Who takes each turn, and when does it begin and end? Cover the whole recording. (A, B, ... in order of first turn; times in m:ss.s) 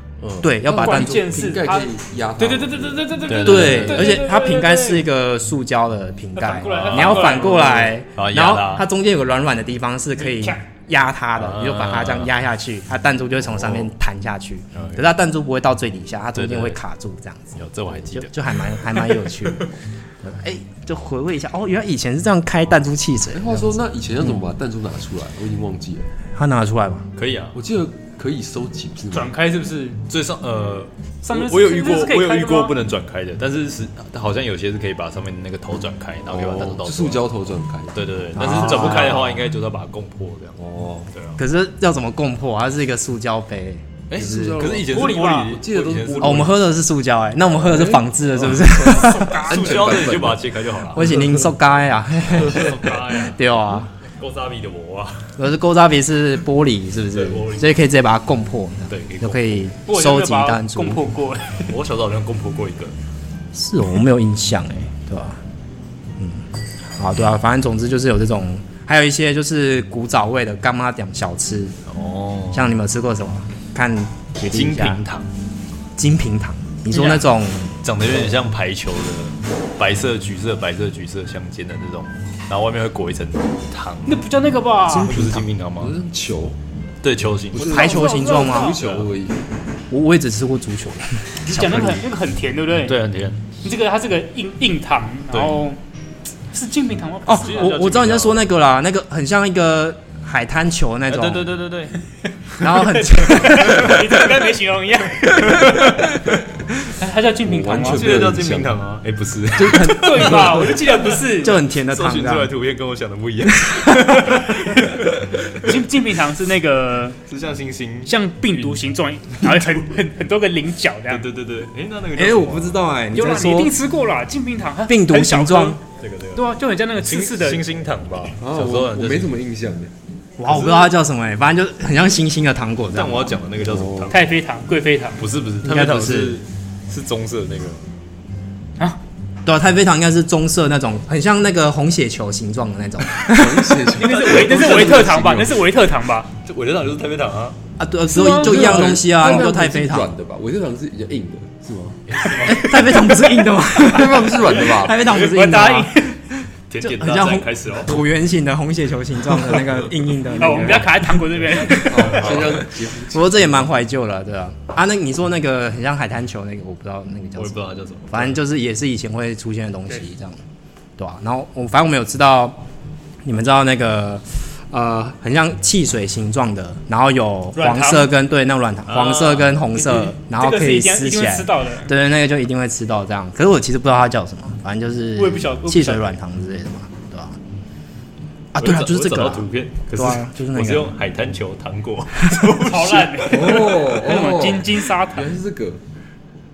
0:00.2-0:04.1 A
0:00.4-0:01.2 B
0:00.7-0:05.0 C
0:03.3-0:04.2 D
0:03.4-0:17.6 B
0:06.4-0:07.9 C
0:06.8-0:08.8 D
0:10.2-0:10.6 C
0:11.3-0:12.3 D
0:13.4-0:13.9 D
0:14.7-0:15.0 D
0:16.3-0:16.8 D
0:17.5-0:18.3 D
0:18.1-0:24.4 B
0:18.9-0:19.7 D
0:23.3-0:26.1 A
0:26.3-0:27.1 B
0:27.2-0:27.6 D
0:27.5-0:29.3 A
0:29.1-0:30.0 C
0:30.1-0:37.3 D
0:31.2-0:32.8 C
0:36.3-0:39.0 A
0:37.9-0:40.6 D
0:38.3-0:39.4 B
0:40.6-0:41.1 A
0:41.1-0:41.4 D
0:41.4-0:44.8 B
0:44.1-0:46.6 D
0:44.3-0:45.6 C
0:45.4-0:46.6 A
0:46.2-0:49.6 B
0:47.5-0:51.0 A
0:48.4-0:51.3 D
0:48.8-0:49.9 C
0:50.9-0:53.9 B
0:52.3-0:55.3 D
0:55.4-1:01.1 B
0:57.1-0:57.8 D
0:58.9-0:59.6 D
0:59.8-1:01.6 C
1:01.6-1:02.9 D
1:03.5-1:05.4 B
1:06.2-1:06.4 B
1:07.0-1:11.8 B
1:11.9-1:12.7 D
1:12.5-1:15.0 B
1:14.4-1:15.3 D
1:16.0-1:17.8 B
1:17.8-1:24.2 D
1:24.0-1:25.1 C
1:24.9-1:25.5 B
1:24.9-1:26.0 D
1:25.8-1:26.6 A
1:27.0-1:27.7 D
1:27.5-1:29.4 A
1:27.6-1:28.8 B
1:27.6-1:28.8 C
1:28.6-1:29.1 D
1:29.9-1:32.0 B
1:31.5-1:33.0 C
1:32.8-1:33.4 D
1:33.6-1:35.8 C
1:35.3-1:35.6 D
1:36.5-1:37.8 C
1:37.2-1:41.5 B
1:37.3-1:38.5 D
1:41.1-1:42.0 D
1:42.5-1:42.8 D
1:42.6-1:44.0 B
1:43.0-1:46.0 C
1:43.4-1:44.0 D
1:46.9-1:48.1 C
1:47.4-1:48.8 A
1:47.7-1:55.8 D
1:49.5-1:50.7 B
1:49.8-1:51.6 C
1:51.4-1:52.5 B
1:53.5-1:54.6 B
1:55.6-1:57.2 C
1:57.3-1:58.1 D
1:58.0-2:01.2 C
1:59.4-1:59.8 D
2:01.1-2:02.8 D
2:02.1-2:03.8 B
2:03.1-2:05.8 C
2:04.9-2:05.8 B
2:06.0-2:06.4 D
2:06.3-2:07.6 C
2:07.0-2:09.4 D
2:08.4-2:09.9 A
2:10.4-2:13.3 B
2:10.4-2:10.9 D
2:12.9-2:14.3 D
2:13.6-2:14.1 A
2:14.1-2:15.3 C
2:15.2-2:17.8 D
2:15.6-2:16.4 B
2:19.4-2:23.9 B
2:23.2-2:25.6 A
2:23.9-2:26.3 C
2:24.0-2:25.2 D
2:26.4-2:27.6 D
2:27.8-2:30.1 B
2:28.1-2:29.4 C
2:28.2-2:32.0 A
2:32.1-2:33.4 D
2:32.3-2:47.6 B
2:33.8-2:35.0 A
2:35.0-2:36.2 C
2:36.7-2:38.0 D
2:39.5-2:39.7 D
2:40.3-2:41.0 D
2:40.4-2:42.3 C
2:41.5-2:42.6 D
2:41.7-2:43.6 A
2:47.4-2:48.4 D
2:48.1-2:50.4 B
2:51.0-2:52.6 B
2:53.2-3:07.4 B
2:57.5-2:58.1 C
2:58.9-2:59.7 D
2:59.8-3:01.9 C
3:05.2-3:06.2 C
3:08.5-3:10.9 B
3:08.6-3:13.6 D
3:12.6-3:15.4 C
3:13.3-3:15.8 A